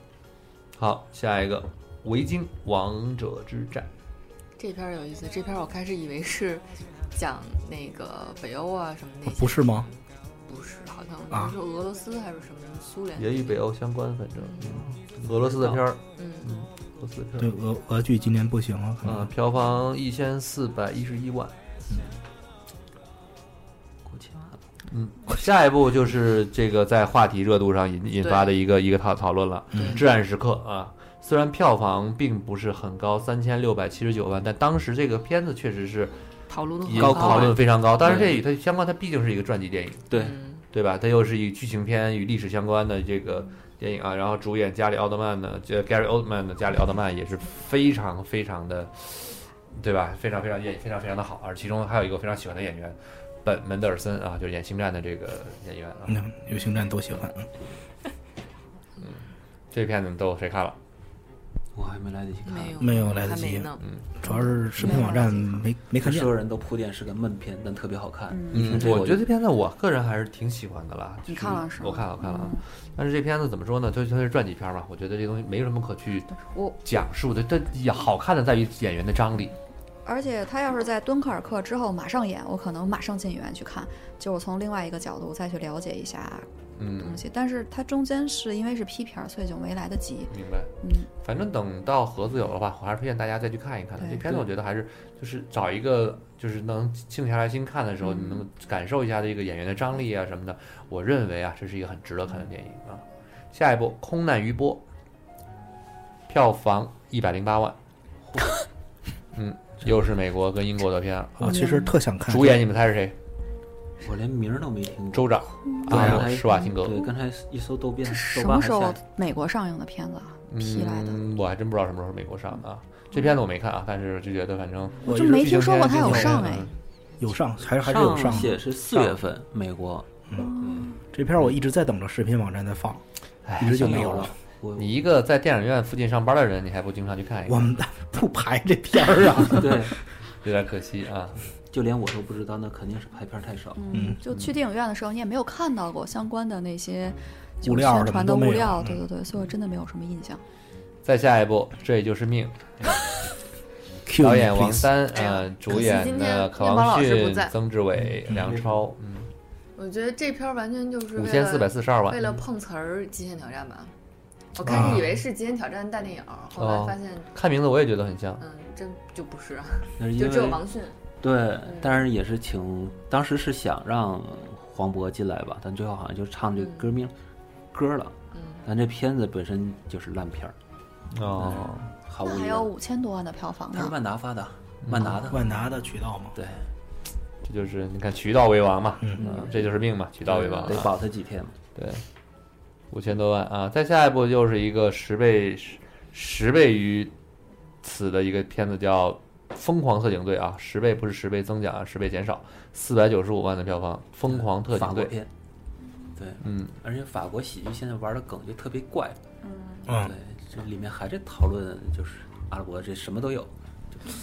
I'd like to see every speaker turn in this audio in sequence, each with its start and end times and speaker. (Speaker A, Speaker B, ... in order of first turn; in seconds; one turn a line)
Speaker A: 0.8-3.9
Speaker B: 4.6-9.9
Speaker C: 9.2-9.9
Speaker B: 10.5-13.4
Speaker A: 13.2-17.5
Speaker D: 14.6-15.8
Speaker B: 16.2-16.5
Speaker C: 17.4-19.3
Speaker A: 19.0-21.5
Speaker D: 24.1-24.6
Speaker A: 24.9-36.1
Speaker B: 28.2-28.5
Speaker B: 36.5-37.6
Speaker A: 36.8-40.1
Speaker D: 36.9-38.4
Speaker D: 40.1-40.4
Speaker B: 40.1-40.6
Speaker A: 40.7-56.2
Speaker C: 56.1-57.5
Speaker A: 59.7-60.8
Speaker D: 61.7-63.0
Speaker B: 62.5-63.9
Speaker C: 62.8-66.3
Speaker E: 64.2-65.6
Speaker D: 66.0-69.2
Speaker E: 68.3-68.7
Speaker A: 68.5-79.5
Speaker E: 71.3-72.6
Speaker E: 76.4-76.8
Speaker E: 80.0-91.1
Speaker A: 86.8-87.2
Speaker A: 90.3-90.7
Speaker A: 91.2-104.8
Speaker A: 106.3-107.8
Speaker A: 109.3-111.5
Speaker C: 111.4-112.6
Speaker E: 111.4-111.9
Speaker A: 112.3-113.2
Speaker D: 114.0-119.0
Speaker A: 115.1-117.0
Speaker C: 115.9-116.3
Speaker E: 118.1-121.2
Speaker A: 120.5-126.7
Speaker E: 125.0-126.7
Speaker C: 125.0-125.5
Speaker C: 126.0-126.4
Speaker C: 127.2-128.6
Speaker D: 127.8-130.1
Speaker A: 128.9-129.2
Speaker D: 130.6-130.9
Speaker C: 131.1-133.0
Speaker A: 133.4-134.2
Speaker C: 133.6-134.3
Speaker D: 133.6-134.9
Speaker A: 134.8-137.7
Speaker C: 137.5-139.9
Speaker D: 139.5-139.9
Speaker A: 140.4-141.4
Speaker D: 141.7-143.8
Speaker E: 143.8-150.4
Speaker C: 143.9-144.2
Speaker C: 147.6-148.9
Speaker A: 151.0-152.9
Speaker C: 154.1-154.9
Speaker A: 154.2-159.3
Speaker B: 155.1-157.5
Speaker C: 158.3-158.5
Speaker B: 159.8-163.9
Speaker A: 161.2-162.2
Speaker B: 164.5-167.3
Speaker C: 164.6-165.1
Speaker A: 166.5-168.4
Speaker B: 168.4-171.0
Speaker D: 170.0-170.6
Speaker D: 171.2-177.1
Speaker B: 171.6-172.1
Speaker B: 176.5-176.9
Speaker D: 177.7-180.5
Speaker B: 178.3-178.6
Speaker A: 181.1-181.9
Speaker D: 181.3-182.7
Speaker E: 182.2-183.9
Speaker D: 183.7-185.5
Speaker A: 184.8-185.2
Speaker C: 185.3-186.3
Speaker D: 186.3-186.7
Speaker A: 187.4-191.0
Speaker D: 189.2-189.7
Speaker D: 190.2-191.5
Speaker A: 191.7-192.0
Speaker A: 192.9-197.1
Speaker A: 197.8-205.2
Speaker D: 204.3-205.3
Speaker D: 206.2-209.2
Speaker A: 206.4-206.7
Speaker E: 209.4-209.8
Speaker C: 209.8-210.1
Speaker D: 209.9-214.1